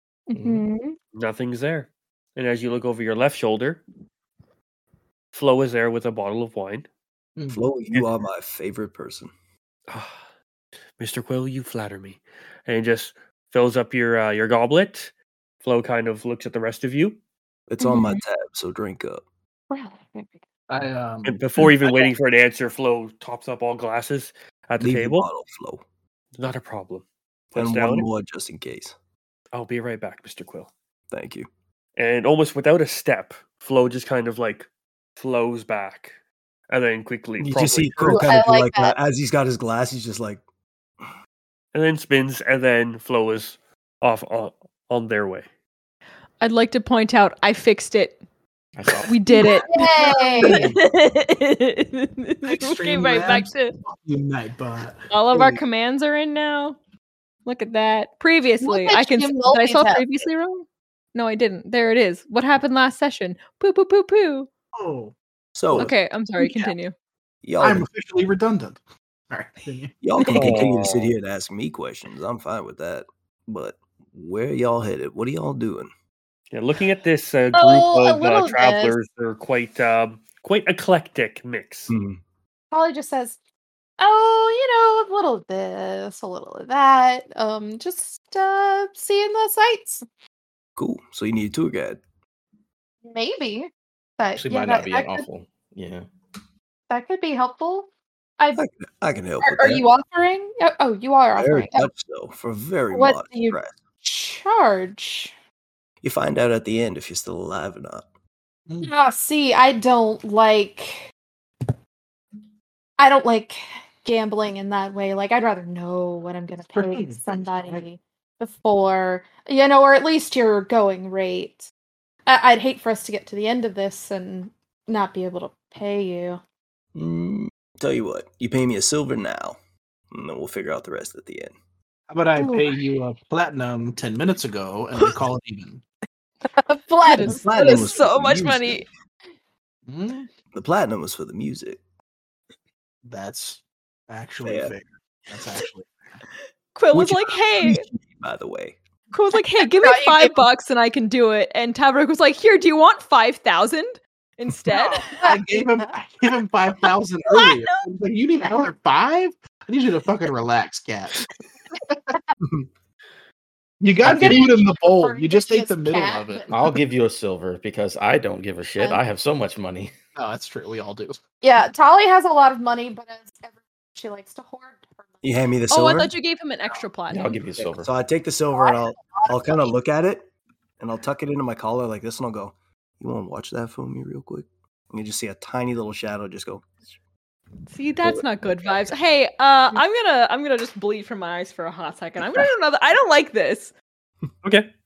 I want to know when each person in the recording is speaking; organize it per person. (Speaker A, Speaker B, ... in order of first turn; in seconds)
Speaker A: 0.3-1.0, 17.8-18.2, 19.7-20.4, 38.1-39.0, 49.3-50.6, 58.6-60.0, 77.5-79.0, 82.7-83.4, 84.0-90.0, 93.0-95.3, 96.9-97.9, 99.4-101.9, 102.9-105.3, 108.8-111.1, 113.0-121.7, 122.3-126.4, 132.4-132.7, 136.5-137.8, 149.8-150.4, 154.7-155.9, 164.0-166.5, 171.4-175.2, 178.5-179.7
Speaker B: 0.3-0.6, 48.8-49.2, 94.4-96.1, 166.5-169.9, 177.1-177.9
Speaker C: 1.1-3.8, 5.3-6.9, 9.9-10.2, 11.0-17.2, 21.2-25.3, 26.4-28.1, 29.5-30.7, 32.0-36.1, 36.7-38.3, 41.7-45.5, 70.3-71.2, 76.5-81.9
Speaker D: 7.5-9.3, 17.7-19.2, 24.8-25.8, 27.5-28.9, 31.1-31.5, 37.4-40.4, 65.6-65.9, 67.4-67.9, 70.0-75.9, 81.9-82.2, 90.8-92.0, 98.5-99.8, 101.4-103.8, 106.0-108.1, 127.0-129.6, 130.1-131.5, 137.2-138.8, 140.5-141.8, 144.4-144.7, 146.9-148.8, 162.4-162.7, 175.2-176.1, 177.7-180.3, 180.8-186.7
Speaker E: 20.7-22.1, 50.0-50.8, 52.5-55.0, 64.7-65.2, 65.7-66.7, 67.6-68.8, 69.3-69.9, 116.7-117.8, 132.1-135.8, 139.9-140.3, 143.1-146.2, 155.2-161.3, 163.8-166.5, 170.2-171.2
Speaker F: 46.4-48.2, 49.1-53.8, 55.1-56.8, 57.5-64.5, 65.7-66.9, 137.1-138.9, 146.8-147.8, 149.1-155.2, 157.3-157.8, 175.7-177.4, 187.7-193.7